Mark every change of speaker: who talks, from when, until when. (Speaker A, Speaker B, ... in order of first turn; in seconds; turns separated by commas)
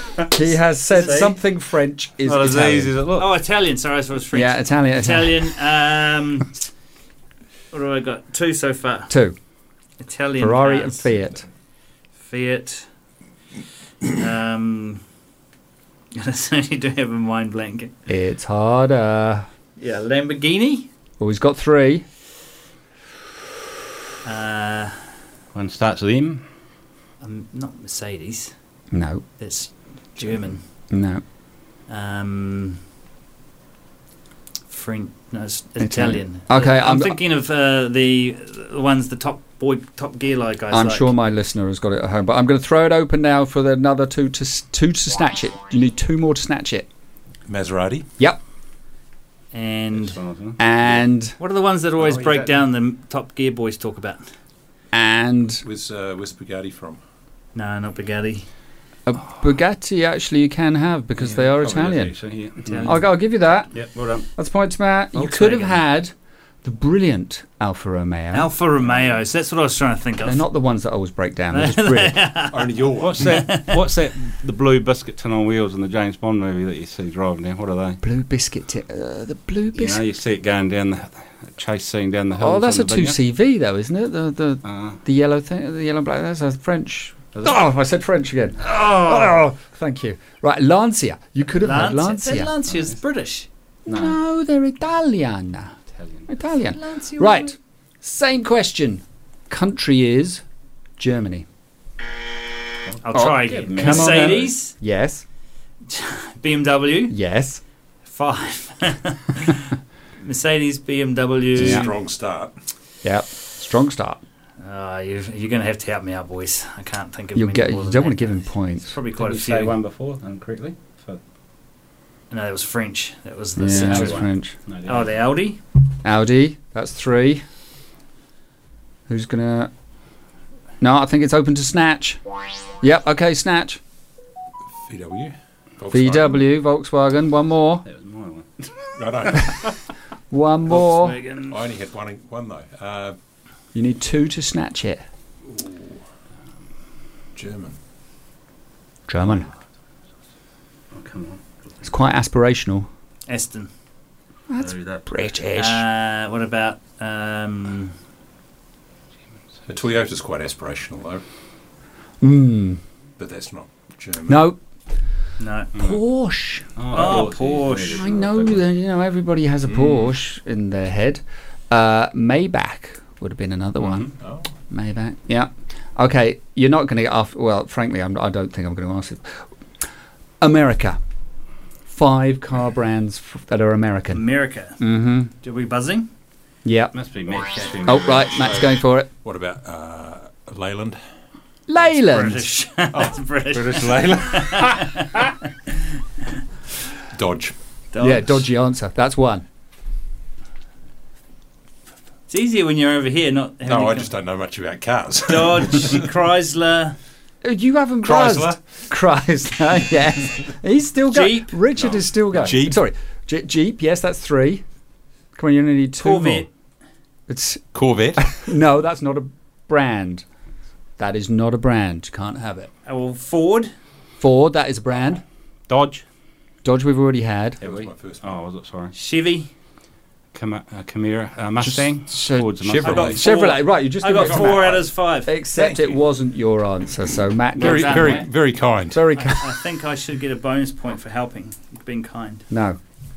Speaker A: 0.2-2.9, Speaker B: 1.0-1.3, Speaker C: 2.2-3.3, Speaker B: 3.2-6.6, Speaker A: 4.3-5.4, Speaker B: 7.7-9.1, Speaker A: 9.1-9.4, Speaker B: 10.0-11.1, Speaker A: 10.4-11.5, Speaker B: 12.2-12.9, Speaker B: 14.1-15.0, Speaker B: 16.1-18.0, Speaker A: 18.1-19.5, Speaker B: 19.8-20.9, Speaker A: 21.2-22.1, Speaker B: 24.2-25.1, Speaker C: 25.5-26.4, Speaker B: 27.2-28.5, Speaker A: 28.9-29.2, Speaker B: 29.4-30.6, Speaker A: 30.9-31.2, Speaker B: 31.9-32.8, Speaker B: 34.7-41.1, Speaker A: 35.8-37.2, Speaker A: 40.7-46.9, Speaker D: 47.5-48.1, Speaker B: 49.5-50.2, Speaker C: 49.9-51.0, Speaker A: 50.6-51.4, Speaker B: 51.4-54.2, Speaker C: 52.0-52.6, Speaker A: 54.9-55.6, Speaker D: 55.6-57.0, Speaker B: 57.5-58.5, Speaker A: 59.1-62.1, Speaker C: 61.2-63.0, Speaker B: 62.6-63.0, Speaker A: 62.8-63.7, Speaker C: 63.7-64.3, Speaker A: 64.4-68.5, Speaker B: 65.2-65.8, Speaker B: 68.3-70.4, Speaker A: 70.2-72.3, Speaker B: 71.5-73.8, Speaker D: 72.5-73.5, Speaker C: 73.0-78.0, Speaker A: 78.0-80.0, Speaker C: 79.8-83.2, Speaker A: 82.4-92.5, Speaker C: 84.6-85.0, Speaker B: 91.6-93.5, Speaker A: 93.9-95.8, Speaker C: 93.9-94.2, Speaker C: 96.0-96.3, Speaker A: 96.3-100.4, Speaker B: 96.7-97.5, Speaker A: 101.0-101.5, Speaker C: 102.9-104.5, Speaker B: 103.0-104.7, Speaker A: 103.1-105.2, Speaker B: 105.9-107.2, Speaker A: 107.1-107.6, Speaker B: 108.1-111.9, Speaker D: 111.5-112.5, Speaker A: 111.6-111.9, Speaker A: 113.0-114.2, Speaker B: 114.6-119.8, Speaker A: 117.3-118.9, Speaker C: 119.2-121.2, Speaker B: 122.3-124.3, Speaker A: 123.6-124.6, Speaker C: 123.7-125.2, Speaker B: 124.9-125.6, Speaker A: 126.0-127.4, Speaker A: 129.1-129.7, Speaker A: 130.8-132.2, Speaker A: 132.8-133.8, Speaker D: 134.8-136.5, Speaker A: 135.9-137.8, Speaker C: 137.8-139.5, Speaker D: 139.0-139.7, Speaker A: 140.3-141.2, Speaker B: 140.7-141.6, Speaker D: 141.5-143.2, Speaker A: 143.7-145.1, Speaker D: 145.4-146.0, Speaker D: 147.3-147.8, Speaker A: 149.1-149.5, Speaker C: 150.9-151.7, Speaker A: 151.8-152.9, Speaker B: 153.3-153.7, Speaker A: 154.5-155.8, Speaker C: 154.6-155.1, Speaker B: 155.6-157.9, Speaker D: 159.7-161.2, Speaker A: 162.2-162.8, Speaker D: 163.2-164.4, Speaker A: 164.3-164.6, Speaker B: 165.4-165.7, Speaker A: 165.7-167.3, Speaker C: 166.8-168.7, Speaker B: 166.9-168.1, Speaker A: 167.9-174.1, Speaker D: 169.7-170.1, Speaker D: 174.2-174.5, Speaker A: 174.7-179.5, Speaker A: 180.4-181.0, Speaker A: 181.9-184.2, Speaker B: 184.1-184.8, Speaker A: 184.8-185.3, Speaker B: 185.4-186.1, Speaker A: 186.7-186.9, Speaker C: 186.9-188.4, Speaker A: 187.8-189.1, Speaker D: 188.4-191.0, Speaker A: 191.7-192.5, Speaker B: 191.8-195.9, Speaker D: 192.9-194.9, Speaker D: 197.1-197.6, Speaker B: 197.9-198.4, Speaker A: 198.0-199.4, Speaker B: 202.3-204.1, Speaker D: 203.7-206.1, Speaker B: 205.3-207.0, Speaker A: 207.4-214.6, Speaker D: 208.0-208.7, Speaker B: 211.1-211.5, Speaker D: 211.8-212.8, Speaker A: 215.3-216.5, Speaker B: 216.0-216.5, Speaker A: 217.3-217.6, Speaker D: 217.7-218.2, Speaker A: 218.2-220.2, Speaker A: 221.0-222.7, Speaker B: 222.9-223.7, Speaker A: 224.2-225.2, Speaker C: 225.7-226.0, Speaker A: 226.6-227.6, Speaker C: 227.6-228.9, Speaker D: 227.6-228.4, Speaker B: 228.9-229.5, Speaker C: 230.3-233.2, Speaker A: 231.6-238.3, Speaker D: 232.6-233.2, Speaker B: 232.8-235.3, Speaker D: 234.2-234.8, Speaker D: 235.5-236.0, Speaker B: 237.6-238.3, Speaker D: 237.6-239.0, Speaker A: 238.9-239.6, Speaker B: 239.1-242.4, Speaker A: 242.5-242.8